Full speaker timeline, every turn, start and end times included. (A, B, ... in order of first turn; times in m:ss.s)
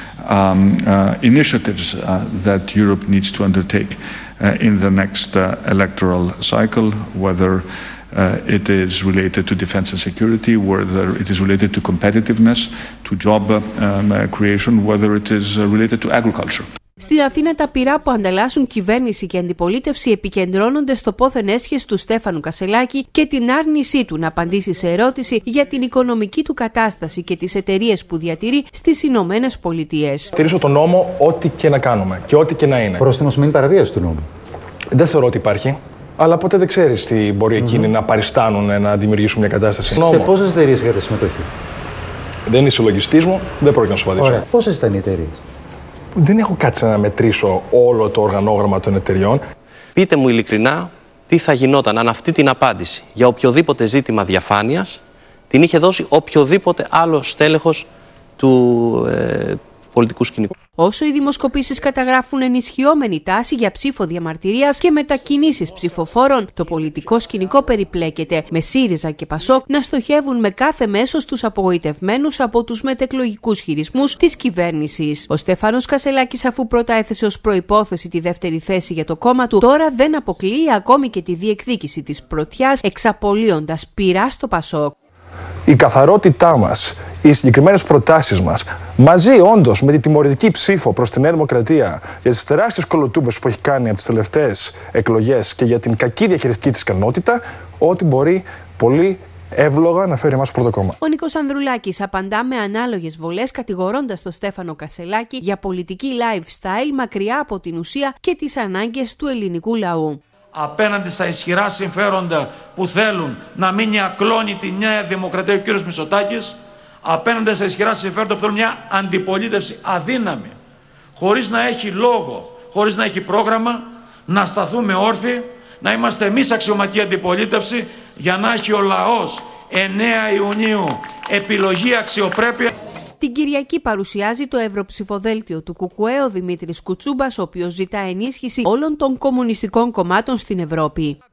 0:00.2-0:16.7 A
0:17.0-0:30.3 B
0:30.4-0:33.1 C
0:33.0-0:34.2 D
0:34.9-0:40.3 C
0:40.0-0:41.5 D
0:42.5-0:44.4 C
0:44.2-0:45.4 D
0:46.2-0:49.4 C
0:50.0-0:57.9 E
0:58.4-1:00.5 E
1:00.8-1:24.9 B
1:25.7-1:41.0 C
1:41.0-1:50.2 B
1:50.5-2:00.6 F
2:01.2-2:12.7 F
2:13.2-2:21.2 B